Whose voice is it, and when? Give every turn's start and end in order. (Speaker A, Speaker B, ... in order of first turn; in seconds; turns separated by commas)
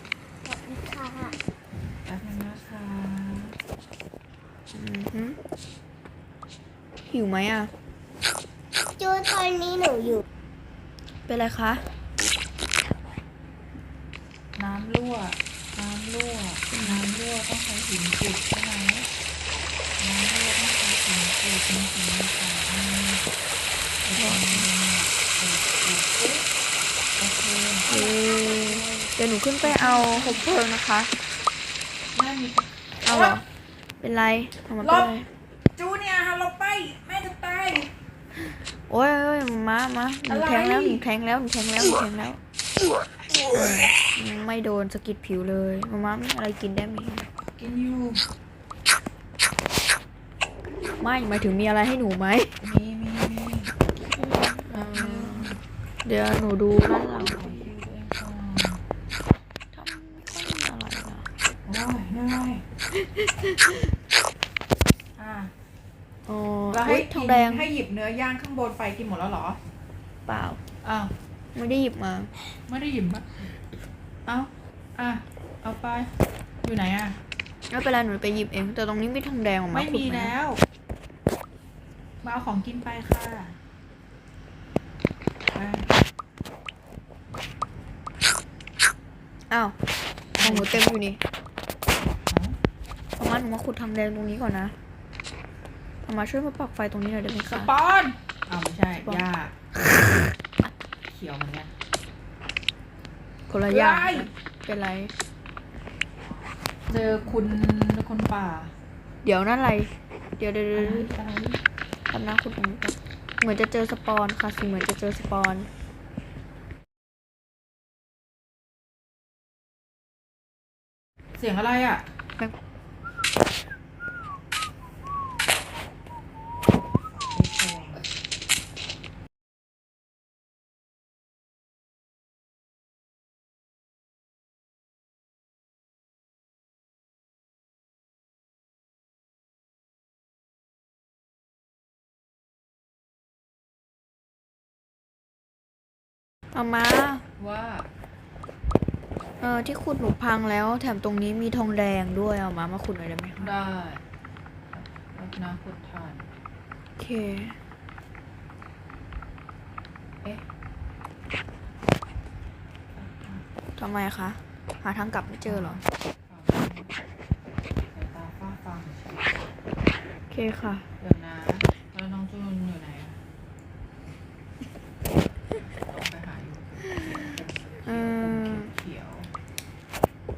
Speaker A: 0.4-1.3, Speaker B: 2.0-3.5, Speaker C: 4.7-5.4, Speaker C: 7.1-7.7, Speaker A: 9.0-10.2, Speaker C: 11.3-11.8, Speaker B: 14.6-19.1, Speaker C: 16.7-17.1, Speaker B: 20.0-23.2, Speaker B: 24.0-26.4, Speaker C: 24.2-24.7, Speaker B: 27.2-28.1, Speaker C: 27.9-31.1, Speaker A: 27.9-29.1, Speaker B: 29.6-30.6, Speaker B: 32.1-33.3, Speaker C: 33.0-33.4, Speaker C: 34.0-35.3, Speaker B: 34.8-35.1, Speaker B: 35.8-37.9, Speaker C: 38.9-42.4, Speaker B: 40.3-41.0, Speaker C: 43.5-47.3, Speaker B: 47.5-48.2, Speaker C: 51.0-52.5, Speaker B: 52.6-53.7, Speaker C: 54.1-57.7, Speaker B: 54.7-55.6, Speaker B: 57.1-58.8, Speaker C: 59.7-61.3, Speaker B: 61.6-62.6, Speaker C: 62.9-63.9, Speaker B: 65.2-65.5, Speaker C: 66.3-67.7, Speaker B: 66.7-69.6, Speaker C: 70.3-70.6, Speaker B: 70.8-71.1, Speaker C: 71.5-72.3, Speaker B: 72.7-73.5, Speaker B: 74.2-76.1, Speaker B: 76.6-77.2, Speaker C: 77.7-80.3, Speaker B: 79.7-80.6, Speaker B: 82.2-83.5, Speaker B: 85.5-85.9, Speaker B: 90.4-90.9, Speaker C: 90.4-91.2, Speaker B: 92.3-92.6, Speaker C: 93.2-94.7, Speaker C: 96.0-97.7, Speaker B: 97.5-99.5, Speaker C: 99.7-100.3, Speaker B: 101.1-101.7, Speaker C: 103.5-105.1, Speaker B: 103.7-104.3, Speaker B: 106.9-108.7, Speaker C: 109.2-111.1, Speaker B: 110.7-111.6, Speaker C: 112.1-115.7, Speaker B: 121.4-122.0, Speaker B: 127.1-128.1, Speaker C: 146.5-147.2, Speaker B: 147.4-147.9, Speaker C: 149.4-153.5, Speaker B: 153.4-154.0, Speaker B: 154.7-156.3, Speaker C: 157.0-157.6, Speaker B: 162.9-163.4, Speaker C: 163.8-165.8, Speaker B: 165.4-166.9, Speaker B: 167.9-169.5, Speaker C: 170.3-170.9, Speaker B: 171.0-173.2, Speaker B: 175.6-179.3, Speaker C: 177.8-178.7